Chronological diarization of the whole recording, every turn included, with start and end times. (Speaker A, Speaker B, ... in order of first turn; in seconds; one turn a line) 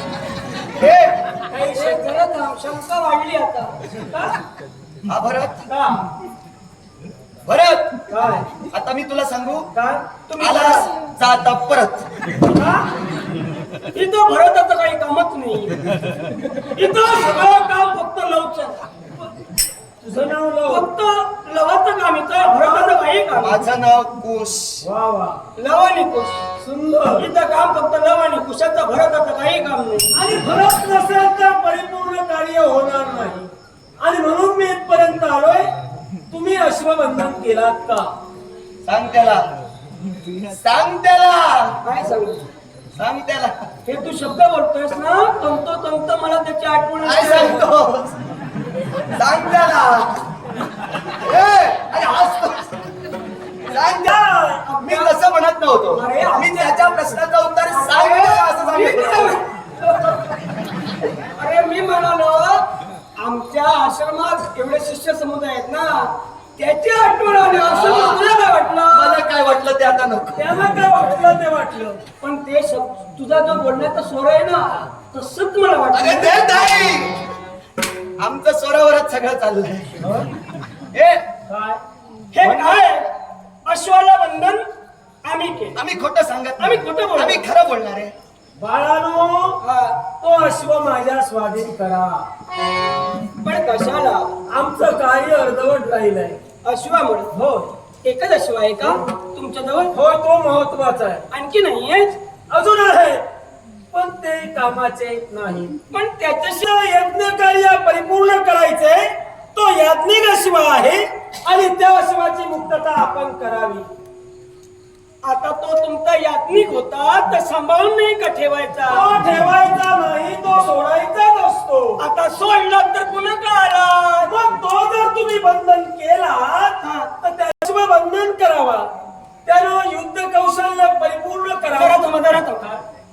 Speaker A: 0.7-1.2
Speaker B: 1.5-2.0
Speaker C: 1.7-3.7
Speaker B: 4.1-4.4
Speaker A: 5.1-5.7
Speaker B: 5.7-6.0
Speaker A: 7.5-8.0
Speaker B: 8.1-8.6
Speaker A: 8.7-9.7
Speaker B: 9.7-10.1
Speaker C: 10.3-10.9
Speaker A: 10.4-12.1
Speaker B: 12.4-12.8
Speaker C: 13.9-15.9
Speaker C: 16.7-18.8
Speaker B: 20.0-20.9
Speaker C: 20.7-23.6
Speaker B: 22.4-23.2
Speaker A: 23.4-24.9
Speaker B: 24.8-25.4
Speaker C: 25.6-26.4
Speaker B: 26.6-27.3
Speaker C: 27.2-30.1
Speaker B: 30.1-33.4
Speaker B: 34.0-35.7
Speaker B: 36.3-38.1
Speaker A: 38.8-39.5
Speaker A: 40.3-41.8
Speaker C: 41.8-42.4
Speaker A: 43.0-43.5
Speaker C: 43.9-47.6
Speaker A: 47.0-48.2
Speaker A: 49.1-50.2
Speaker A: 51.0-52.7
Speaker A: 53.6-54.2
Speaker B: 53.7-54.6
Speaker C: 54.6-55.1
Speaker A: 54.8-59.4
Speaker C: 55.9-56.8
Speaker C: 57.7-60.1
Speaker B: 58.7-59.4
Speaker C: 61.4-62.6
Speaker C: 63.1-69.2
Speaker A: 67.6-68.3
Speaker A: 68.9-70.4
Speaker B: 70.4-72.0
Speaker C: 72.2-76.6
Speaker A: 75.9-77.2
Speaker A: 78.2-80.0
Speaker B: 80.0-80.3
Speaker A: 80.9-81.3
Speaker B: 81.5-81.8
Speaker C: 82.3-83.1
Speaker A: 82.4-82.9
Speaker C: 83.7-84.6
Speaker C: 85.2-85.8
Speaker A: 85.8-88.1
Speaker C: 86.6-87.4
Speaker B: 88.6-89.6
Speaker C: 89.6-90.0
Speaker B: 90.2-92.3
Speaker C: 93.3-94.3
Speaker B: 94.5-96.4
Speaker C: 96.6-97.3
Speaker B: 97.3-97.7
Speaker C: 98.0-99.9
Speaker B: 99.9-101.2
Speaker C: 101.3-102.2
Speaker B: 102.5-103.2
Speaker B: 103.9-105.8
Speaker C: 105.9-106.6
Speaker B: 106.6-113.9
Speaker C: 115.2-119.2
Speaker B: 118.9-122.0
Speaker C: 122.0-124.3
Speaker B: 124.2-128.9
Speaker C: 126.8-127.1
Speaker B: 129.4-132.1
Speaker C: 131.7-132.8